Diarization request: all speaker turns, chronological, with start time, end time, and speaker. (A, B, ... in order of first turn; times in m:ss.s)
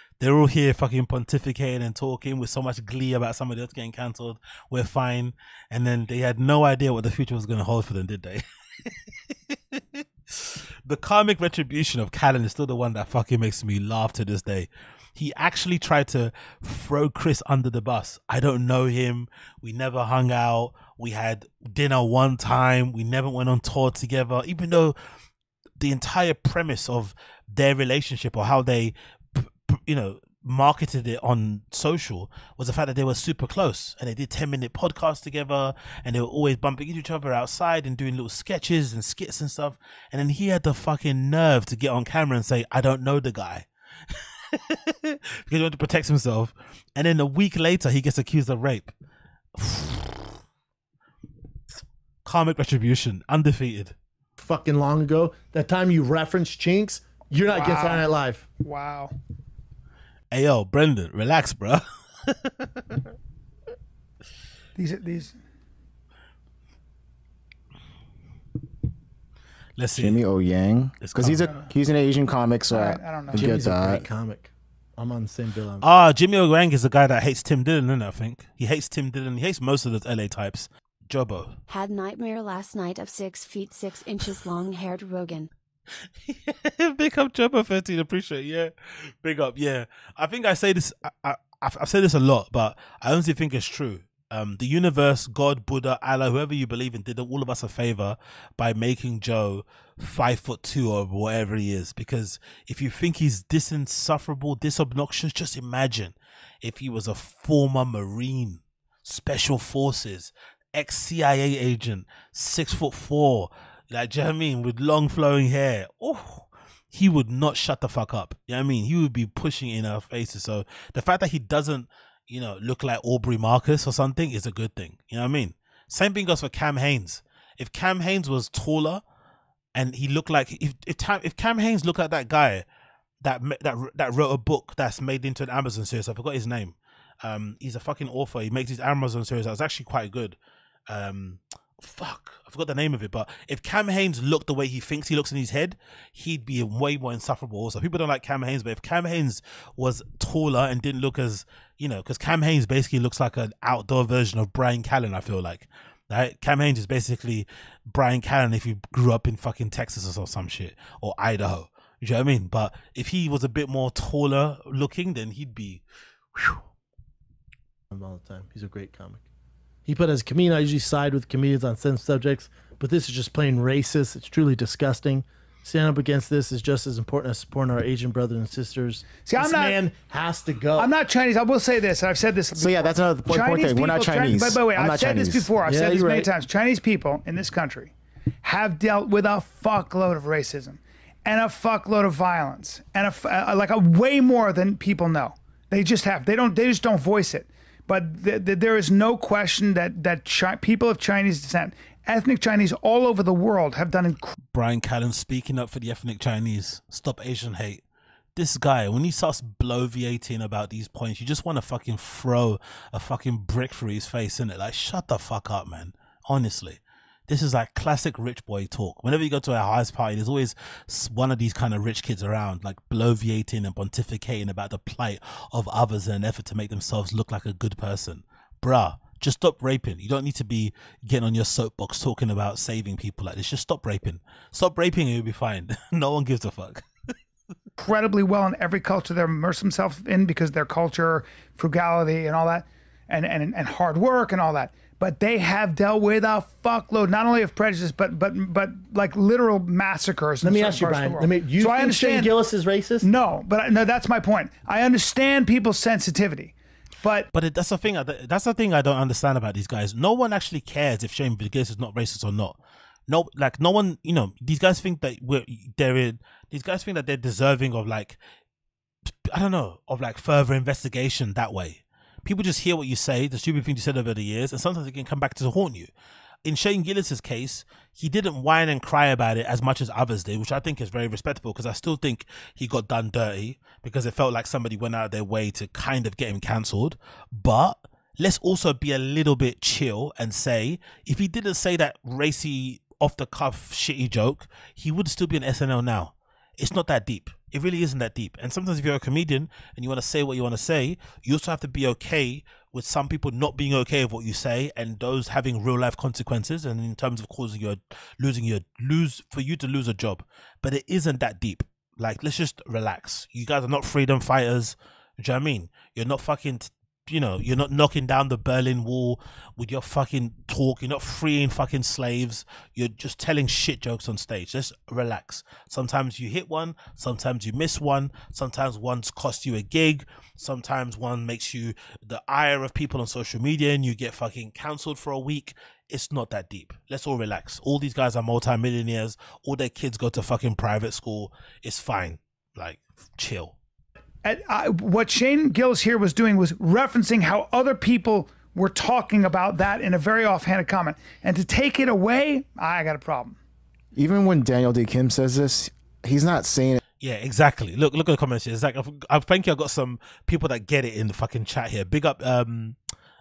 0:00.2-0:25.0 A
0:25.8-0:48.9 A
0:49.6-0:50.4 A
0:51.8-0:54.0 A
0:54.4-0:58.4 B
0:57.5-0:58.1 C
0:58.6-0:59.2 C
1:00.3-1:02.7 A
1:04.8-1:05.4 C
1:09.8-1:10.2 A
1:10.0-1:14.1 D
1:11.0-1:11.5 A
1:12.7-1:13.5 C
1:13.3-1:15.8 B
1:15.8-1:21.6 A
1:21.7-1:25.5 E
1:26.2-2:09.0 A
2:09.8-2:12.6 A
2:13.2-2:20.4 A
2:20.9-2:45.8 A
2:46.4-2:46.6 A
2:47.9-2:49.2 B
2:49.9-3:00.9 B
2:59.2-2:59.8 C
3:00.8-3:24.4 C
3:02.6-3:05.5 D
3:05.6-3:06.3 B
3:24.5-3:27.8 A
3:28.4-3:56.8 A
3:57.8-4:12.3 C
4:10.4-4:13.1 B
4:13.0-4:17.3 C
4:17.3-4:28.2 A
4:29.3-4:35.9 A
4:36.4-5:43.6 A
5:44.2-5:53.4 C
5:54.0-5:56.8 D
5:57.0-6:02.8 A